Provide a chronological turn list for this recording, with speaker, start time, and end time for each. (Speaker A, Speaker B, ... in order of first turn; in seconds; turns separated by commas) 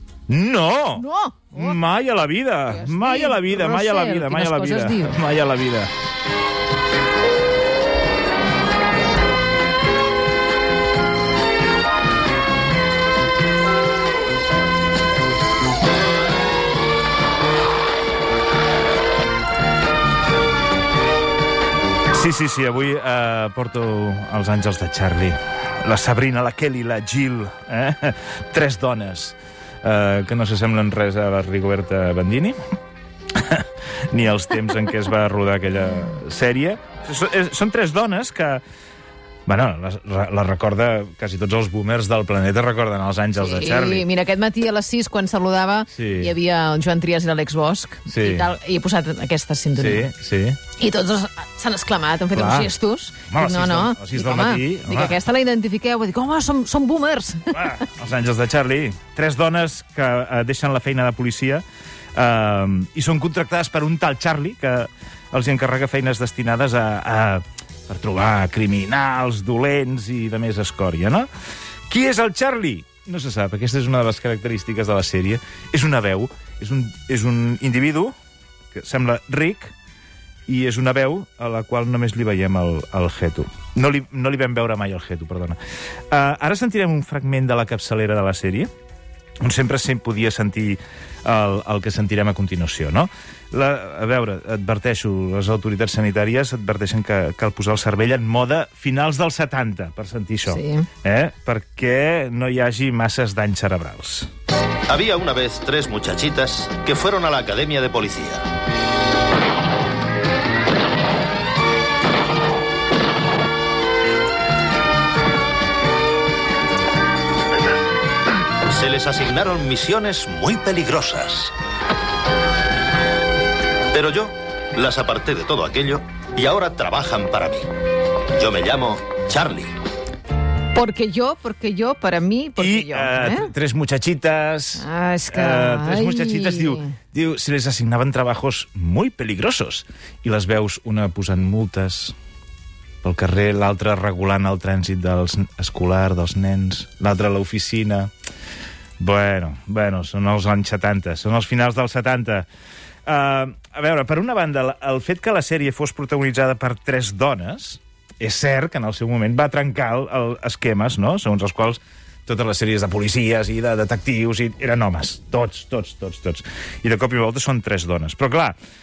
Speaker A: 0.3-5.9, Speaker B: 0.9-1.8, Speaker B: 2.7-5.2, Speaker A: 22.1-32.6, Speaker A: 33.3-38.6, Speaker A: 39.5-44.1, Speaker B: 43.4-50.1, Speaker A: 45.9-46.3, Speaker A: 48.1-48.5, Speaker A: 49.8-50.6, Speaker B: 50.7-57.6, Speaker A: 52.3-52.7, Speaker A: 53.3-55.2, Speaker A: 57.5-61.6, Speaker A: 62.1-71.3, Speaker A: 71.9-78.1, Speaker A: 78.7-79.7, Speaker A: 80.5-85.6, Speaker A: 86.1-88.7, Speaker A: 89.4-104.3, Speaker B: 100.5-100.9, Speaker C: 104.9-108.4, Speaker C: 118.7-121.5, Speaker C: 123.9-127.7, Speaker C: 128.3-129.7, Speaker B: 130.7-133.5, Speaker A: 132.6-142.1, Speaker B: 134.8-136.9, Speaker A: 143.0-148.1, Speaker A: 149.0-152.5, Speaker A: 153.0-168.6